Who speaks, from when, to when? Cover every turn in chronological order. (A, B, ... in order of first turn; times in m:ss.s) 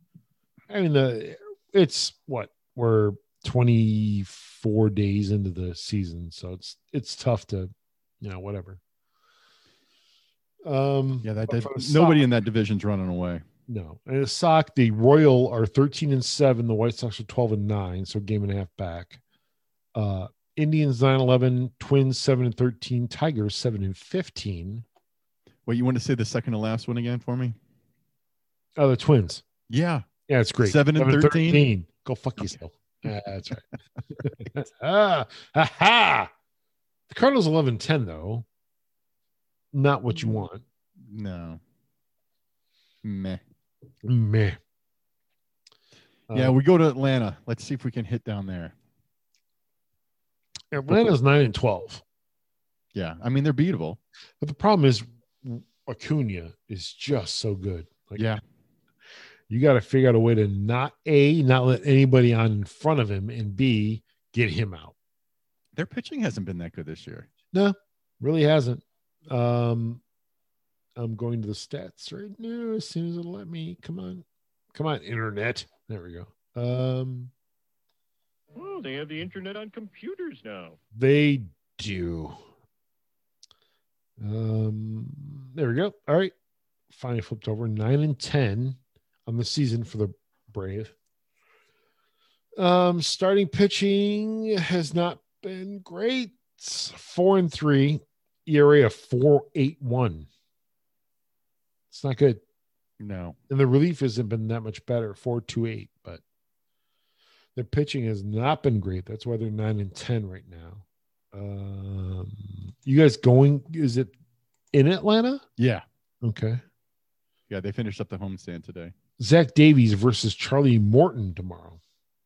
0:00.7-0:08.8 A
0:10.6-0:12.3 A
0:11.2-0:13.4 B
0:13.7-0:19.2 A
0:19.9-0:24.8 A
0:25.6-0:27.6 B
0:28.8-0:29.4 A
0:29.7-0:30.1 B
0:30.3-0:33.6 A
0:30.6-0:31.7 B
0:34.2-0:36.3 A
0:37.1-0:38.4 A
0:39.7-0:40.6 A
0:41.0-0:41.6 B
0:43.0-0:43.4 B
0:44.0-0:44.6 A
0:46.3-0:46.6 A
0:46.3-0:48.7 B
0:50.7-0:52.0 A
0:52.9-0:54.0 B
0:54.4-0:58.3 A
0:59.5-1:04.9 A
1:05.7-1:07.3 B
1:07.5-1:10.0 A
1:11.0-1:17.3 A
1:18.6-1:20.8 C
1:20.9-1:22.4 A
1:24.2-1:26.3 A
1:26.9-1:30.9 A
1:32.6-1:40.3 A
1:41.9-1:42.4 A
1:43.0-1:43.4 B
1:43.5-1:46.2 A
1:47.6-1:54.1 A
1:54.7-1:55.4 A
1:55.6-1:55.8 B
1:56.2-1:56.6 A
1:57.5-1:58.9 B
1:59.2-2:01.8 A